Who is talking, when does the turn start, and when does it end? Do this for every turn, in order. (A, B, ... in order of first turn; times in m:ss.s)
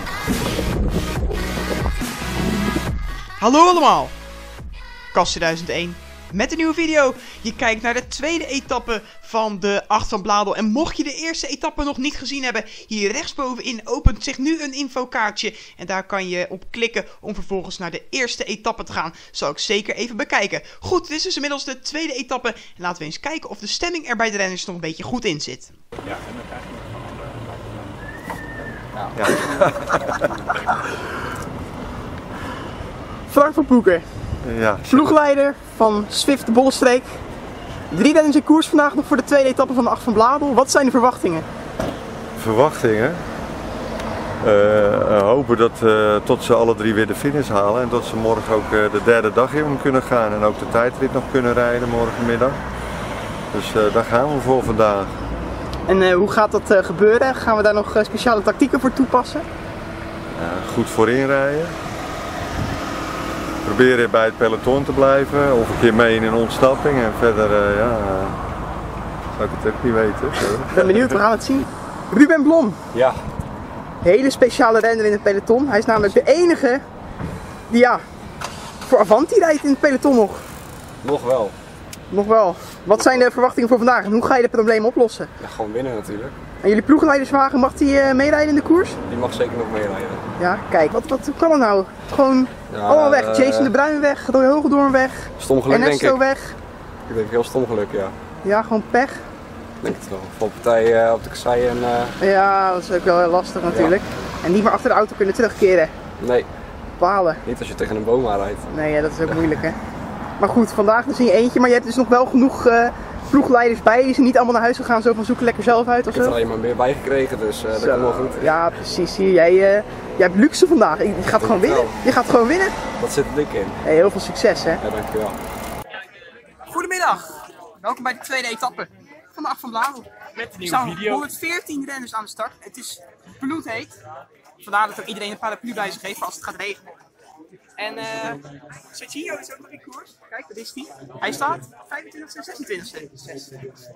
0:03.4-0:04.1 A
0:05.1-0:25.8 A
0:29.1-0:30.2 B
0:33.3-0:34.1 A
0:34.4-0:35.1 B
0:34.9-0:37.2 A
0:37.9-0:41.4 A
0:42.4-0:43.2 B
0:44.4-0:52.6 B
0:53.5-0:55.2 B
0:55.9-0:59.4 A
1:00.3-1:01.7 B
1:03.6-1:08.4 B
1:09.3-1:11.1 B
1:10.7-1:12.8 A
1:12.9-1:13.2 C
1:14.0-1:16.8 A
1:17.7-1:18.0 A
1:18.9-1:20.4 A
1:21.0-1:21.6 C
1:22.1-1:25.3 A
1:25.4-1:26.3 C
1:26.6-1:29.0 A
1:29.1-1:30.3 C
1:30.4-1:36.6 A
1:32.7-1:33.7 C
1:35.4-1:36.2 C
1:37.1-1:38.1 C
1:38.4-1:39.2 A
1:39.8-1:42.1 C
1:42.2-1:45.9 A
1:43.7-1:44.0 C
1:46.2-1:46.5 C
1:47.0-1:47.4 A
1:47.4-1:48.6 C
1:48.7-1:49.8 A
1:50.4-1:56.4 A
1:56.1-1:58.6 C
1:57.8-2:02.8 A
2:01.4-2:02.0 C
2:03.0-2:03.8 C
2:03.8-2:04.8 A
2:04.8-2:05.4 C
2:06.7-2:14.0 A
2:14.6-2:16.8 A
2:17.8-2:23.5 A